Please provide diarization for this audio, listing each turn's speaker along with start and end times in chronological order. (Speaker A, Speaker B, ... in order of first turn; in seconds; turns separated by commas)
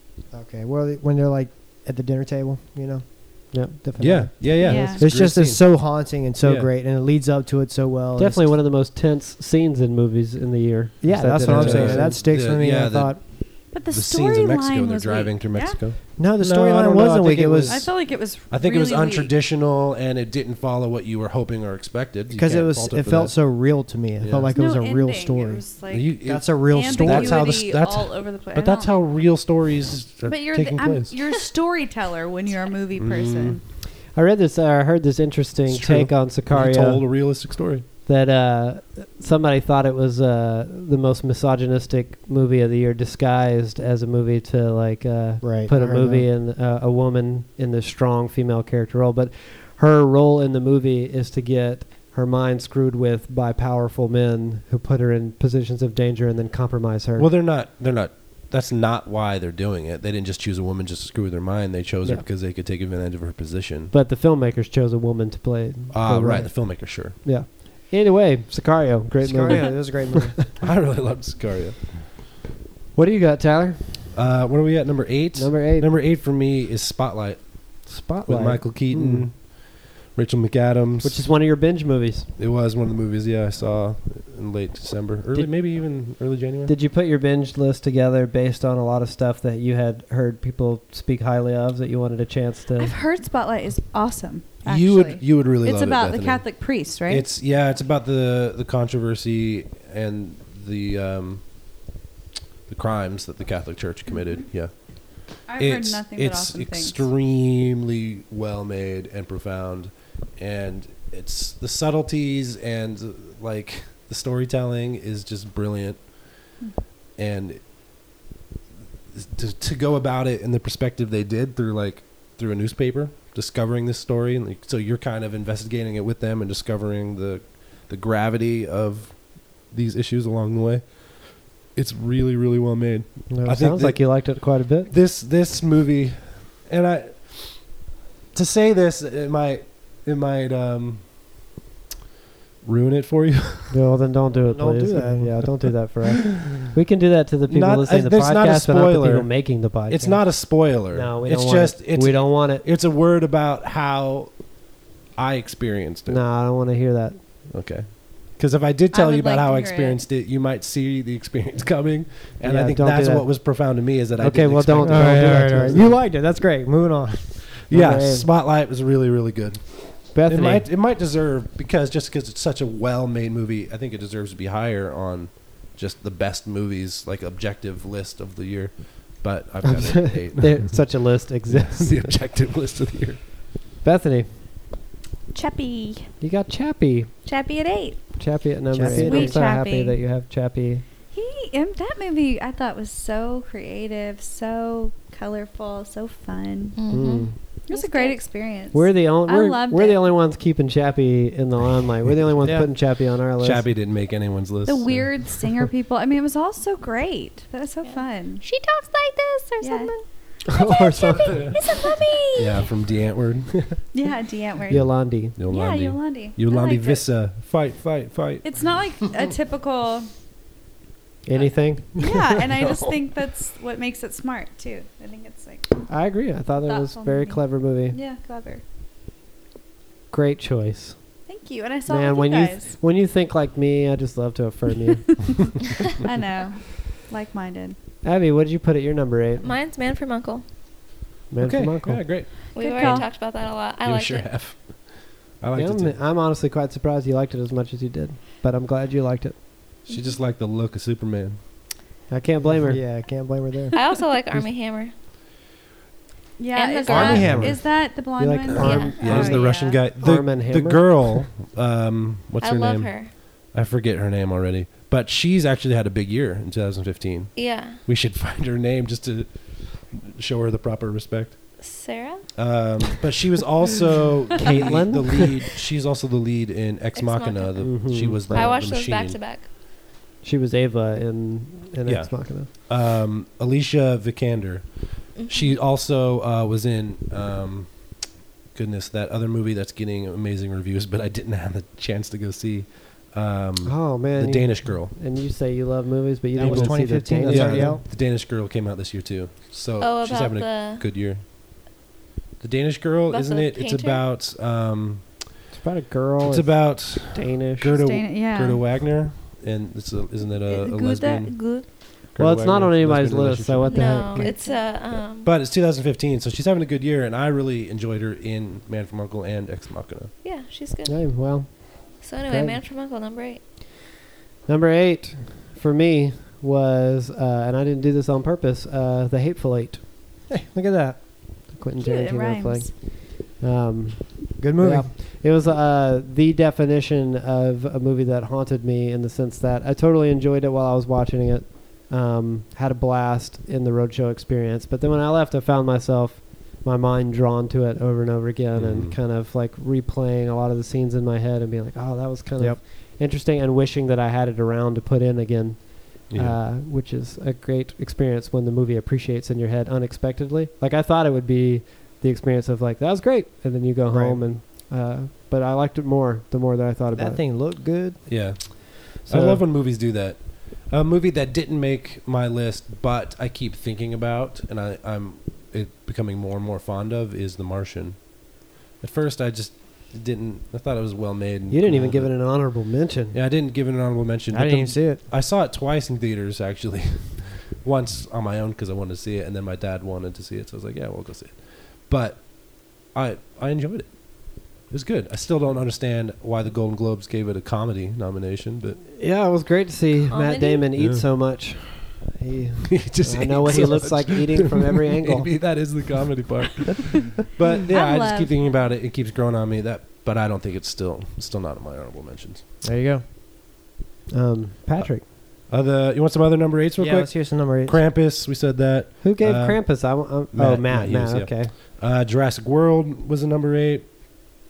Speaker A: 0.3-8.5, Speaker B: 3.5-3.8, Speaker C: 4.0-5.8, Speaker D: 4.6-5.0, Speaker C: 6.4-6.7, Speaker B: 8.2-12.2, Speaker A: 11.0-13.2, Speaker C: 11.4-23.4, Speaker D: 13.7-15.8, Speaker A: 16.2-17.9, Speaker D: 17.7-19.3, Speaker A: 22.3-25.7, Speaker C: 24.2-24.5, Speaker D: 24.5-29.0, Speaker C: 25.9-31.1, Speaker A: 26.2-27.5, Speaker D: 30.2-33.6, Speaker C: 33.0-33.6, Speaker B: 34.1-37.0, Speaker C: 35.7-37.8, Speaker B: 38.0-57.3, Speaker A: 45.4-46.3, Speaker C: 57.2-63.9, Speaker B: 63.9-70.3, Speaker C: 65.9-67.2, Speaker A: 69.2-70.4, Speaker C: 70.6-72.0, Speaker B: 72.9-74.2, Speaker C: 74.1-81.3, Speaker B: 75.3-75.9, Speaker B: 77.9-79.3, Speaker B: 81.0-82.3, Speaker C: 82.4-86.7, Speaker B: 86.7-92.9, Speaker D: 92.8-97.2, Speaker C: 94.6-101.7, Speaker C: 102.7-116.3, Speaker D: 104.1-104.5, Speaker D: 105.4-107.1, Speaker C: 117.2-117.6, Speaker C: 119.1-141.4, Speaker B: 133.3-134.9, Speaker C: 142.6-143.8, Speaker B: 143.7-152.6, Speaker A: 144.5-145.5, Speaker C: 147.5-154.6, Speaker C: 155.1-156.2, Speaker B: 156.1-157.2, Speaker C: 157.5-165.9, Speaker D: 158.9-160.0, Speaker B: 162.4-163.5, Speaker B: 164.1-165.9, Speaker A: 164.8-167.5, Speaker C: 167.7-180.9, Speaker B: 167.7-168.3, Speaker B: 170.1-170.7, Speaker B: 179.6-182.0, Speaker C: 181.5-183.2, Speaker B: 183.8-184.3, Speaker D: 185.3-186.1, Speaker B: 186.2-187.1, Speaker D: 187.2-188.0, Speaker B: 188.2-190.8, Speaker A: 188.7-189.4, Speaker D: 188.9-189.9, Speaker E: 189.3-189.7, Speaker D: 191.1-196.8, Speaker E: 196.7-198.2, Speaker B: 196.9-197.3, Speaker D: 197.7-200.0, Speaker B: 198.7-203.7, Speaker A: 202.4-202.7, Speaker C: 203.4-205.5, Speaker D: 204.7-208.4, Speaker E: 207.8-210.0, Speaker D: 209.6-209.9, Speaker B: 210.5-211.4, Speaker D: 210.5-212.7, Speaker E: 210.8-212.7, Speaker C: 212.3-213.7, Speaker D: 213.9-217.1, Speaker B: 214.7-215.3, Speaker C: 215.3-218.4, Speaker D: 218.4-220.1, Speaker B: 221.2-222.2, Speaker D: 221.9-225.9, Speaker C: 222.6-222.9, Speaker B: 225.9-228.0, Speaker D: 226.6-228.6, Speaker B: 230.1-231.0, Speaker D: 231.3-232.8, Speaker B: 231.9-235.4, Speaker D: 236.0-237.8, Speaker B: 238.0-239.5, Speaker E: 239.4-240.4, Speaker B: 241.3-242.0, Speaker C: 241.4-243.0, Speaker E: 242.5-244.3, Speaker D: 242.5-243.1, Speaker C: 243.8-246.0, Speaker B: 245.5-249.3, Speaker C: 249.9-251.4, Speaker B: 252.1-252.8, Speaker A: 252.5-253.7, Speaker E: 253.7-254.9, Speaker D: 256.4-259.8, Speaker E: 256.5-257.2, Speaker C: 256.9-257.6, Speaker A: 256.9-257.6, Speaker B: 257.9-260.9, Speaker C: 258.5-271.6, Speaker E: 258.6-259.1, Speaker E: 262.4-263.2, Speaker E: 267.3-267.8, Speaker E: 271.6-272.3, Speaker C: 272.3-279.2, Speaker B: 274.4-275.4, Speaker E: 276.9-279.5, Speaker B: 277.6-278.5, Speaker B: 280.2-282.5, Speaker C: 281.9-294.9, Speaker E: 285.2-285.5, Speaker B: 293.6-297.8, Speaker A: 296.3-297.8, Speaker C: 296.4-301.2, Speaker E: 299.8-300.8, Speaker C: 302.4-305.3, Speaker E: 303.1-304.0, Speaker B: 305.5-307.8, Speaker C: 306.2-311.4, Speaker D: 307.6-308.6, Speaker D: 310.5-311.7, Speaker C: 312.1-313.9, Speaker B: 312.2-314.3, Speaker E: 313.7-315.3, Speaker D: 313.9-314.7, Speaker C: 315.2-320.1, Speaker E: 320.2-321.0, Speaker B: 320.9-322.6, Speaker E: 322.0-323.4, Speaker B: 324.4-329.8, Speaker A: 330.3-331.3, Speaker B: 331.5-367.2, Speaker D: 331.8-332.7, Speaker A: 334.4-334.9, Speaker C: 348.6-348.9, Speaker C: 356.1-356.4, Speaker A: 363.9-364.2, Speaker A: 366.9-368.4, Speaker C: 368.1-382.6, Speaker B: 369.1-369.4, Speaker B: 381.5-383.2, Speaker C: 383.1-398.8, Speaker A: 384.3-385.0, Speaker B: 398.8-405.4, Speaker E: 400.1-400.7, Speaker C: 400.8-401.0, Speaker C: 402.7-412.4, Speaker D: 407.7-408.3, Speaker A: 412.6-413.0, Speaker B: 414.1-415.1, Speaker C: 415.5-424.2, Speaker A: 416.8-417.8, Speaker B: 419.0-421.5